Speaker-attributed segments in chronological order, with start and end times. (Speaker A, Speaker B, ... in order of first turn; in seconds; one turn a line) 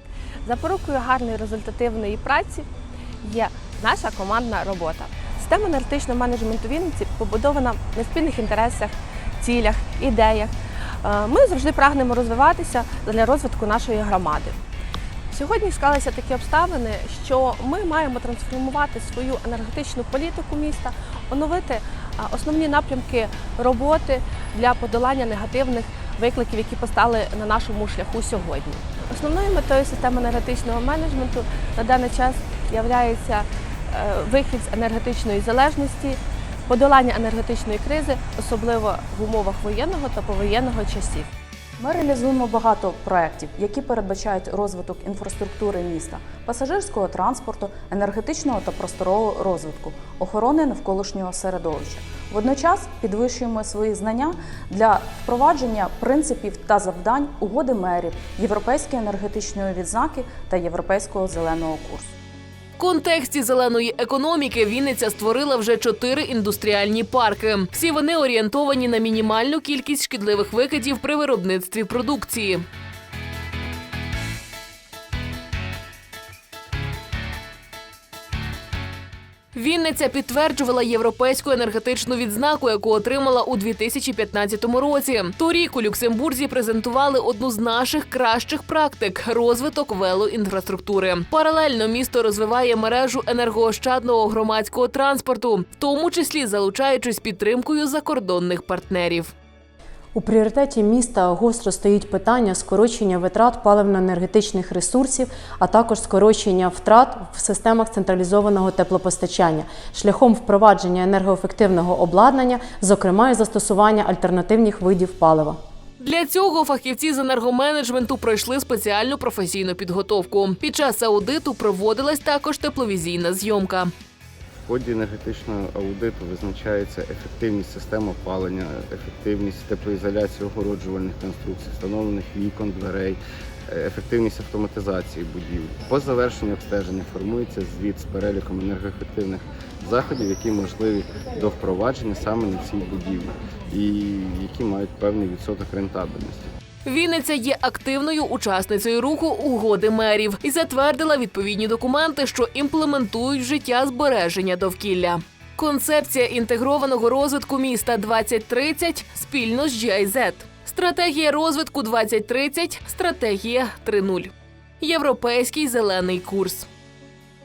Speaker A: 0.4-2.7
Speaker A: 3.2-14.6
Speaker A: 15.3-41.3
Speaker B: 41.8-62.1
Speaker C: 62.8-72.6
Speaker C: 79.5-99.3
Speaker D: 100.1-115.6
Speaker C: 116.0-123.9
Speaker E: 124.7-146.5
Speaker C: 146.8-166.7